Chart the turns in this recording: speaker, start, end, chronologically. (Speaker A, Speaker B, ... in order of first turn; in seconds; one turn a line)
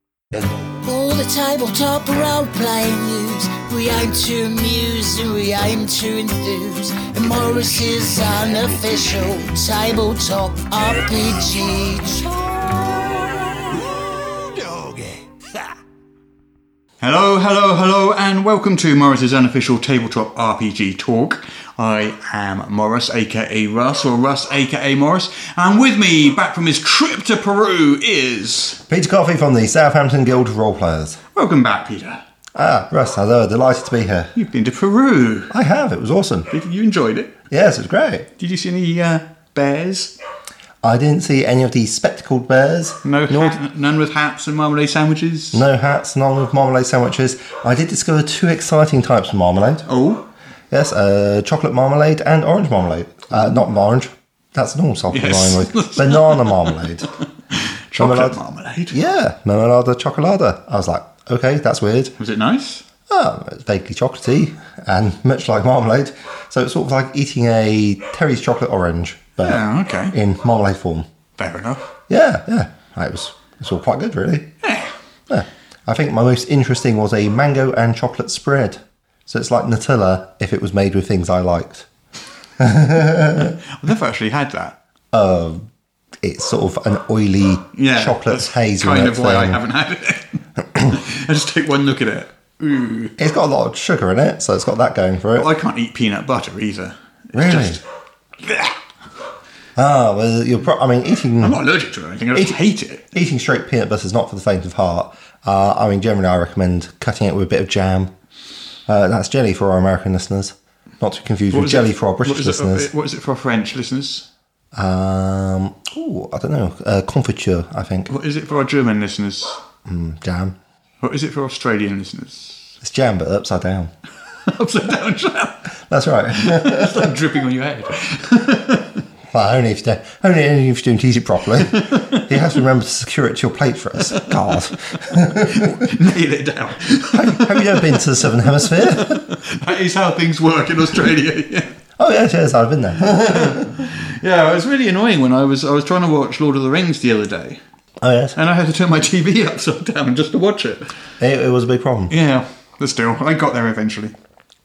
Speaker A: 0.8-13.8
Speaker A: 14.7-14.9
Speaker B: 17.0-28.8
Speaker C: 28.9-31.2
Speaker B: 31.3-32.2
Speaker C: 32.5-34.3
Speaker B: 34.4-35.5
Speaker C: 35.5-36.5
Speaker B: 36.5-37.4
Speaker C: 37.5-38.3
Speaker B: 38.4-40.2
Speaker C: 40.8-43.6
Speaker B: 43.0-45.6
Speaker C: 45.5-49.9
Speaker B: 49.9-50.2
Speaker C: 50.7-57.1
Speaker B: 55.1-56.8
Speaker B: 57.5-59.0
Speaker C: 58.0-58.4
Speaker C: 58.9-62.1
Speaker B: 62.2-62.8
Speaker C: 63.1-71.1
Speaker B: 69.4-70.2
Speaker B: 71.4-71.8
Speaker C: 72.1-74.5
Speaker B: 74.6-74.9
Speaker C: 75.3-81.9
Speaker C: 82.6-83.6
Speaker B: 83.4-84.8
Speaker C: 85.1-85.7
Speaker C: 86.2-89.6
Speaker B: 87.7-93.2
Speaker C: 93.2-95.5
Speaker B: 95.3-97.8
Speaker C: 97.3-97.8
Speaker B: 98.4-98.8
Speaker C: 99.8-101.6
Speaker B: 101.4-103.0
Speaker C: 102.3-102.6
Speaker C: 103.1-108.1
Speaker C: 108.9-112.9
Speaker B: 111.5-114.3
Speaker C: 114.7-118.1
Speaker B: 118.1-119.6
Speaker C: 119.9-120.5
Speaker B: 121.0-122.7
Speaker C: 122.8-123.9
Speaker B: 124.5-125.7
Speaker C: 125.9-127.1
Speaker B: 126.3-129.0
Speaker C: 129.3-135.8
Speaker B: 131.7-132.2
Speaker B: 135.3-141.7
Speaker C: 137.1-139.2
Speaker C: 142.0-143.9
Speaker B: 143.1-147.6
Speaker C: 148.0-148.4
Speaker B: 148.3-150.9
Speaker C: 151.2-152.1
Speaker B: 152.1-154.1